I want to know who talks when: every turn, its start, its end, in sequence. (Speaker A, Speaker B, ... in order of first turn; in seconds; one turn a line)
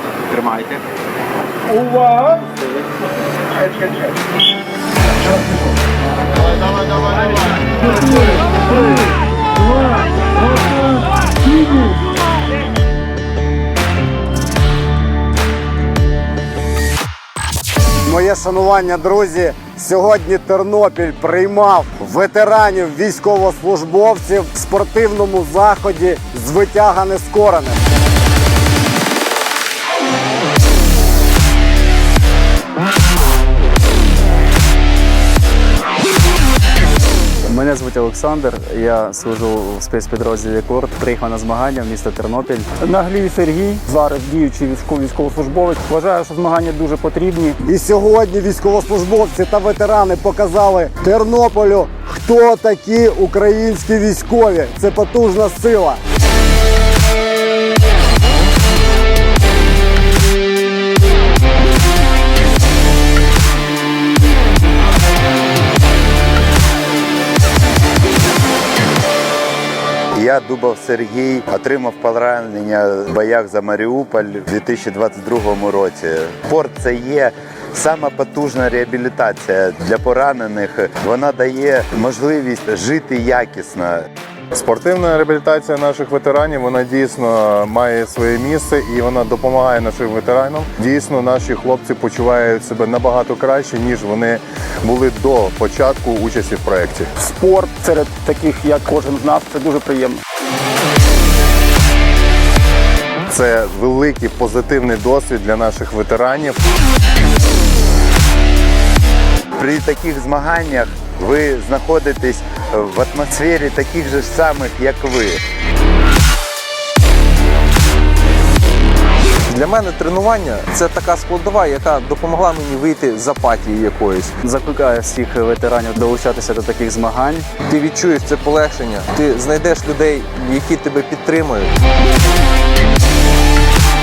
Speaker A: 0.3-0.8
Speaker B: 1.7-2.4
Speaker C: 18.1-27.8
Speaker D: 37.5-42.7
Speaker B: 42.8-47.6
Speaker C: 47.7-56.0
Speaker E: 70.2-84.0
Speaker F: 84.5-97.1
Speaker B: 97.2-100.2
Speaker F: 103.3-106.6
Speaker E: 109.6-115.4
Speaker A: 119.5-124.3
Speaker D: 124.4-127.5
Speaker A: 127.7-131.7